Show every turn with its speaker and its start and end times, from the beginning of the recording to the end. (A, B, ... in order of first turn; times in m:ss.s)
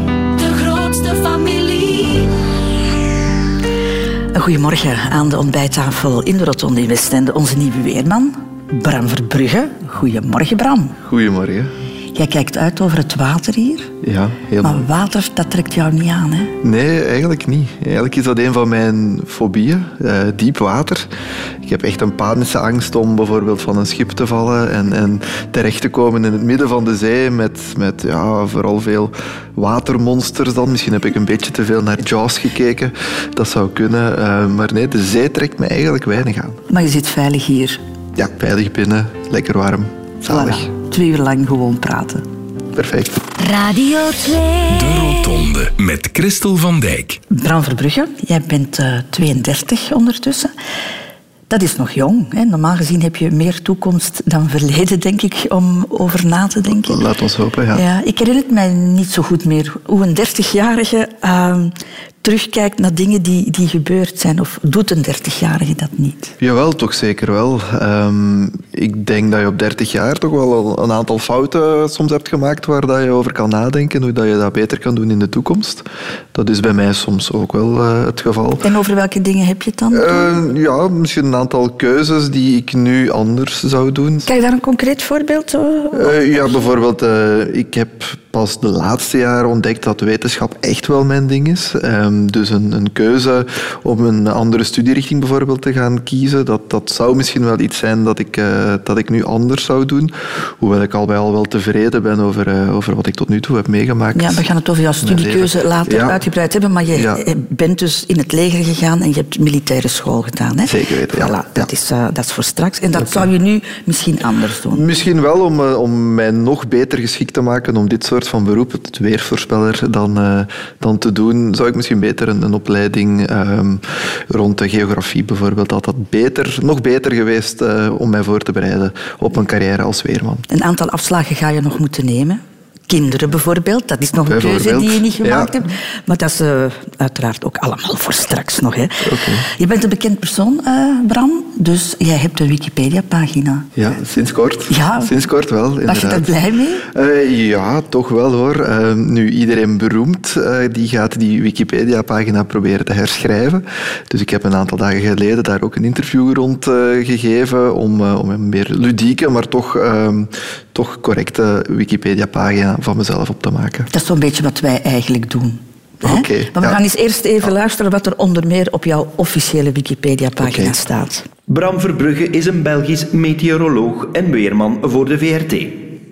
0:00.4-0:02.3 A
0:04.3-0:11.0 B
0:11.0-0:11.7 C
0:12.1-0:13.9 B
0:14.0-0:14.8 C
0:14.6-0:16.5 B
0:16.6-0:21.1 C
0:21.6-0:36.6 C
0:36.7-0:37.8 B
0:38.2-0:40.7 C
0:40.3-0:42.2 B
0:42.7-0:43.2 C
0:43.4-0:45.0 A
0:44.7-0:47.2 D
0:47.3-0:50.5 B
0:51.5-0:57.0 B
0:56.9-0:57.8 C
0:57.7-1:06.3 B
1:06.4-1:18.6 C
1:18.6-1:20.3 B
1:19.9-1:24.3 C
1:24.2-1:26.6 B
1:25.9-1:44.4 C
1:44.1-1:54.8 B
1:45.0-1:46.2 C
1:46.9-1:47.2 C
1:50.6-1:51.7 C
1:53.0-1:53.3 C
1:54.7-2:10.4 C
2:10.5-2:23.7 B
2:14.2-2:15.6 C
2:19.0-2:19.4 C
2:23.8-2:26.3 C
2:24.7-2:25.2 B
2:25.8-2:26.8 B
2:26.9-2:43.9 C
2:43.9-2:51.2 B
2:46.0-2:46.8 C
2:50.4-2:50.7 C
2:51.5-2:55.9 E